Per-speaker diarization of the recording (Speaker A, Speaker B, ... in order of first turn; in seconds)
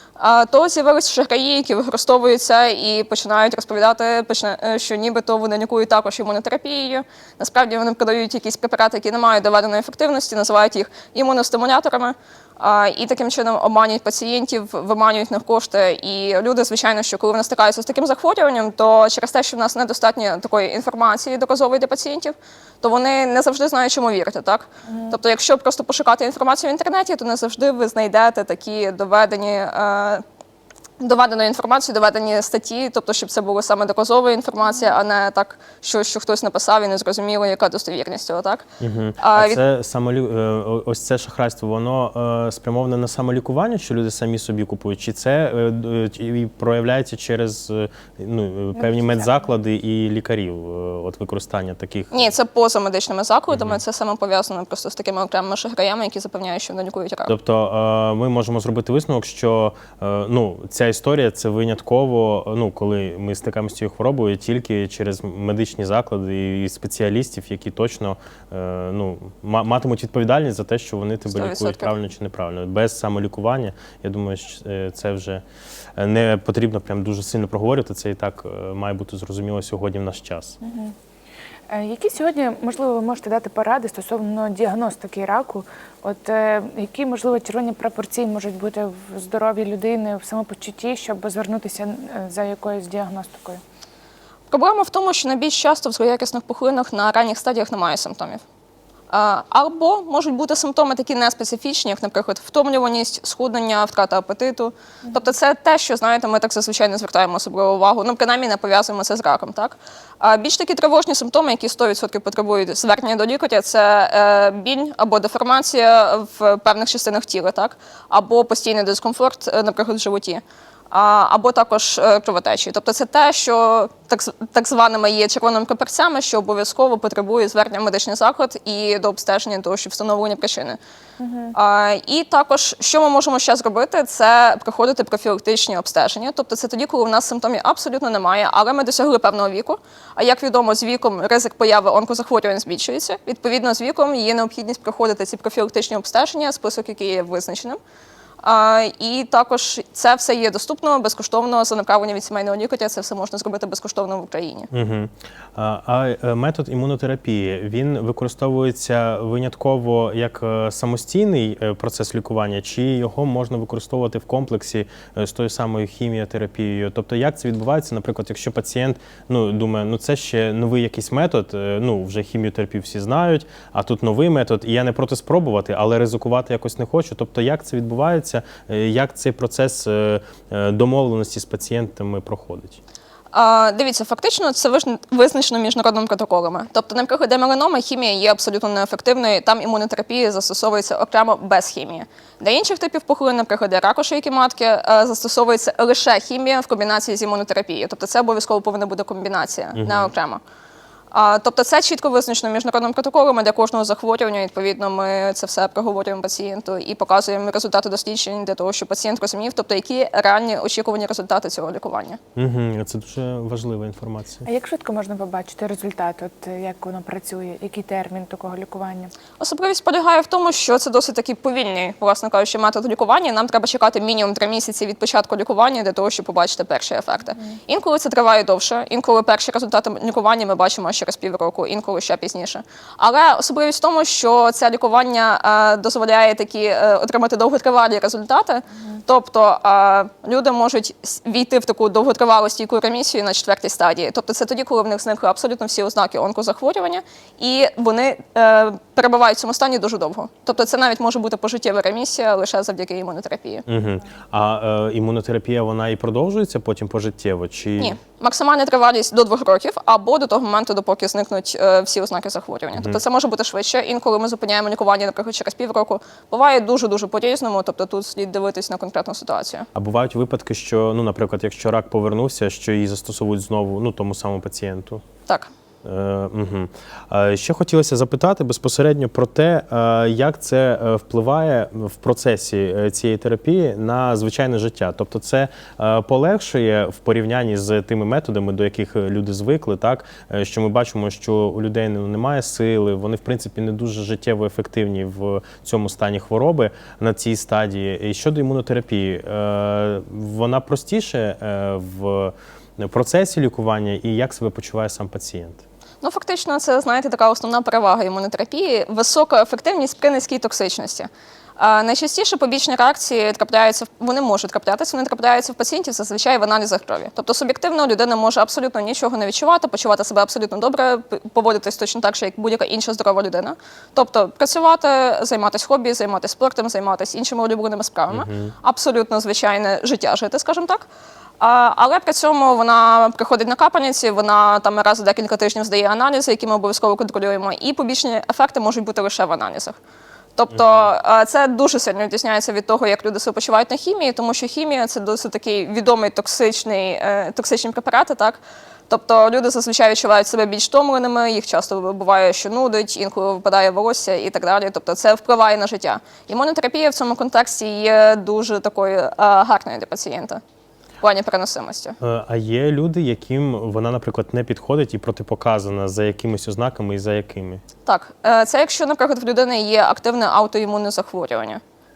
Speaker A: 0.2-30.2, 31.0-38.7, 39.2-39.6, 52.1-57.3, 71.3-71.9, 94.5-98.4, 99.1-130.8, 131.5-147.8, 148.4-154.7, 183.3-200.4, 201.1-212.2, 219.4-253.6, 257.8-269.7, 306.0-330.9, 331.4-339.8, 340.4-360.4, 361.0-361.9, 367.9-371.6
Speaker B: 24.9-25.2, 48.8-49.4, 80.6-80.9, 81.7-93.6, 131.2-131.5, 214.4-219.1
Speaker C: 38.8-52.3, 53.5-53.8, 57.3-75.4, 76.0-80.6, 154.7-182.8, 199.8-200.1, 212.3-214.4, 253.7-257.9, 262.7-263.0, 269.7-275.0, 275.8-305.6, 328.1-328.5, 340.5-340.9, 362.0-367.6